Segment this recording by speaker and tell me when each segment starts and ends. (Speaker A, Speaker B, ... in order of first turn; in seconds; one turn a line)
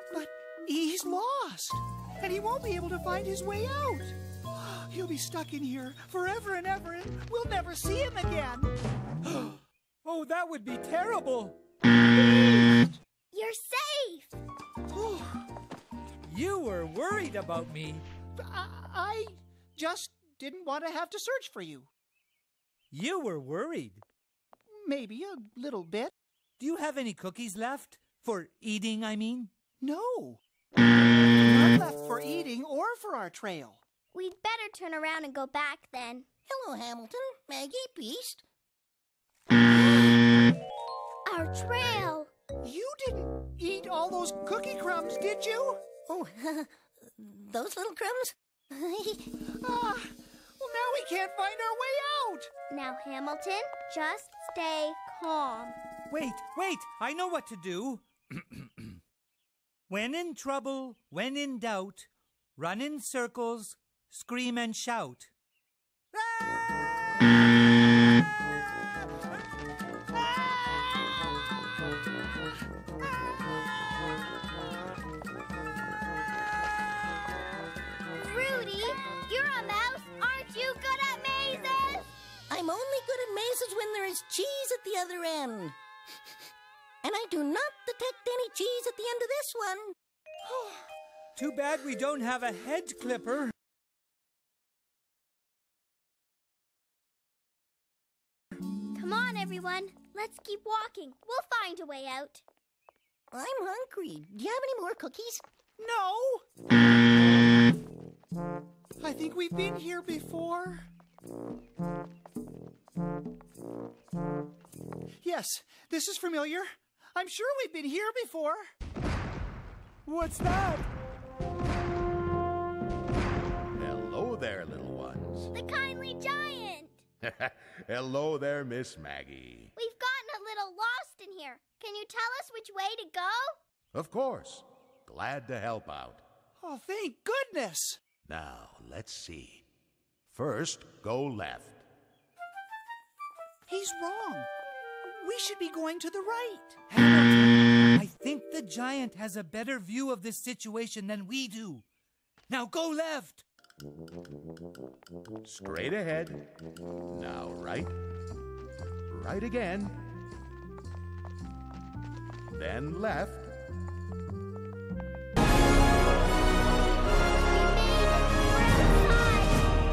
Speaker A: 0.1-8.7
Speaker B: 9.3-11.6
Speaker A: 12.2-13.0
Speaker C: 13.3-14.3
Speaker A: 14.9-15.5
Speaker B: 16.2-18.0
Speaker A: 18.4-21.9
Speaker B: 22.9-24.0
Speaker A: 24.7-26.1
Speaker B: 26.6-29.5
Speaker A: 29.8-30.4
Speaker A: 31.1-33.8
Speaker C: 34.1-36.3
Speaker D: 36.5-38.4
Speaker C: 41.2-42.3
Speaker A: 42.6-45.9
Speaker D: 46.0-49.3
Speaker A: 49.6-52.5
Speaker C: 52.7-55.8
Speaker B: 56.1-58.9
Speaker B: 59.9-65.3
Speaker B: 66.1-66.6
Speaker C: 78.2-82.0
Speaker D: 82.5-85.8
Speaker D: 87.0-89.9
Speaker A: 90.5-90.9
Speaker B: 91.3-93.5
Speaker C: 98.9-102.4
Speaker D: 103.3-105.4
Speaker A: 105.8-106.4
Speaker A: 109.0-110.9
Speaker A: 115.2-118.7
Speaker B: 120.0-120.9
Speaker E: 123.8-125.5
Speaker C: 125.5-127.0
Speaker E: 127.2-129.7
Speaker C: 129.7-133.6
Speaker E: 133.9-136.2
Speaker A: 136.6-138.0
Speaker E: 138.2-139.6
Speaker E: 140.3-141.8
Speaker A: 143.7-144.5
Speaker A: 145.1-146.8
Speaker B: 146.9-151.8
Speaker B: 152.5-153.4
Speaker E: 155.4-156.4
Speaker E: 157.1-157.9
Speaker E: 159.1-160.0
Speaker E: 162.5-163.5
Speaker C: 167.3-169.6